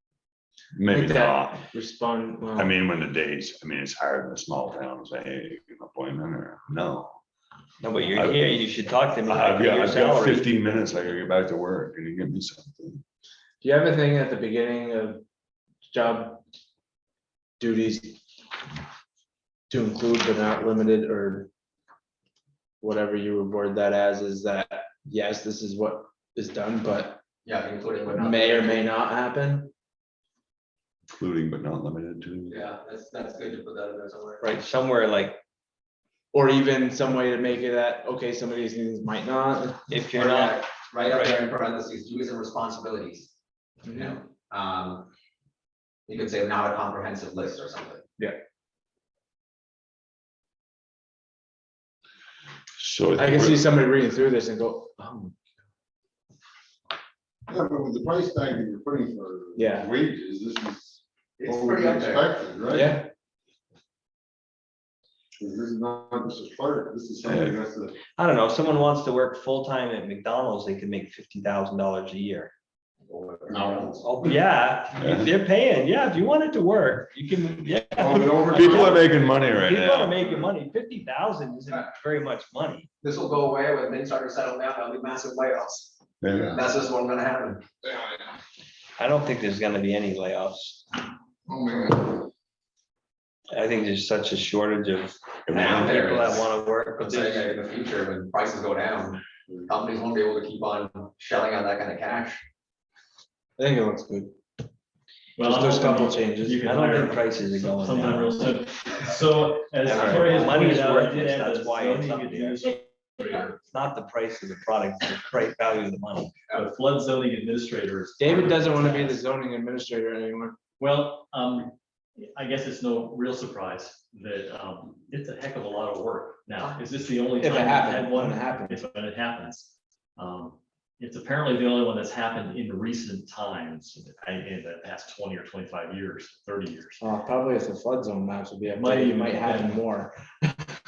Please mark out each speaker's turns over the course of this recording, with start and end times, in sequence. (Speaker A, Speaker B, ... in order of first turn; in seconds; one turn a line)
Speaker A: 0.7-1.7
Speaker B: 0.9-2.7
Speaker A: 2.5-7.2
Speaker C: 7.8-10.5
Speaker A: 8.1-8.6
Speaker A: 9.2-13.0
Speaker B: 13.6-15.2
Speaker B: 15.9-16.4
Speaker B: 17.6-18.2
Speaker B: 19.7-21.5
Speaker B: 22.8-27.2
Speaker D: 27.4-28.9
Speaker B: 28.1-29.7
Speaker A: 31.1-32.7
Speaker D: 32.5-34.5
Speaker C: 34.4-35.4
Speaker B: 36.3-39.9
Speaker C: 39.9-41.5
Speaker D: 40.1-43.3
Speaker B: 43.9-44.1
Speaker D: 43.9-45.1
Speaker D: 46.1-48.0
Speaker A: 52.8-53.8
Speaker B: 53.1-55.4
Speaker E: 57.5-63.0
Speaker B: 59.6-59.9
Speaker D: 61.4-62.3
Speaker B: 62.7-63.1
Speaker E: 65.4-68.0
Speaker A: 67.3-67.5
Speaker C: 68.2-72.5
Speaker E: 73.1-74.4
Speaker D: 73.4-73.8
Speaker C: 74.0-82.9
Speaker A: 75.0-75.3
Speaker E: 78.0-79.1
Speaker A: 78.5-80.2
Speaker E: 80.2-80.5
Speaker D: 83.0-86.0
Speaker A: 86.2-86.6
Speaker E: 86.3-86.6
Speaker D: 86.5-87.7
Speaker E: 87.8-88.3
Speaker C: 89.0-90.8
Speaker E: 91.5-92.3
Speaker C: 93.5-97.6
Speaker A: 95.5-96.0
Speaker D: 95.5-102.5
Speaker B: 103.6-104.4
Speaker F: 105.4-113.6
Speaker B: 105.4-106.6
Speaker C: 106.6-108.5
Speaker C: 109.9-112.6
Speaker B: 109.9-110.3
Speaker D: 113.2-113.5
Speaker C: 113.6-116.3
Speaker F: 116.5-119.2
Speaker B: 118.2-120.6
Speaker F: 120.8-137.0
Speaker B: 127.4-128.8
Speaker B: 137.0-140.6
Speaker F: 138.7-139.8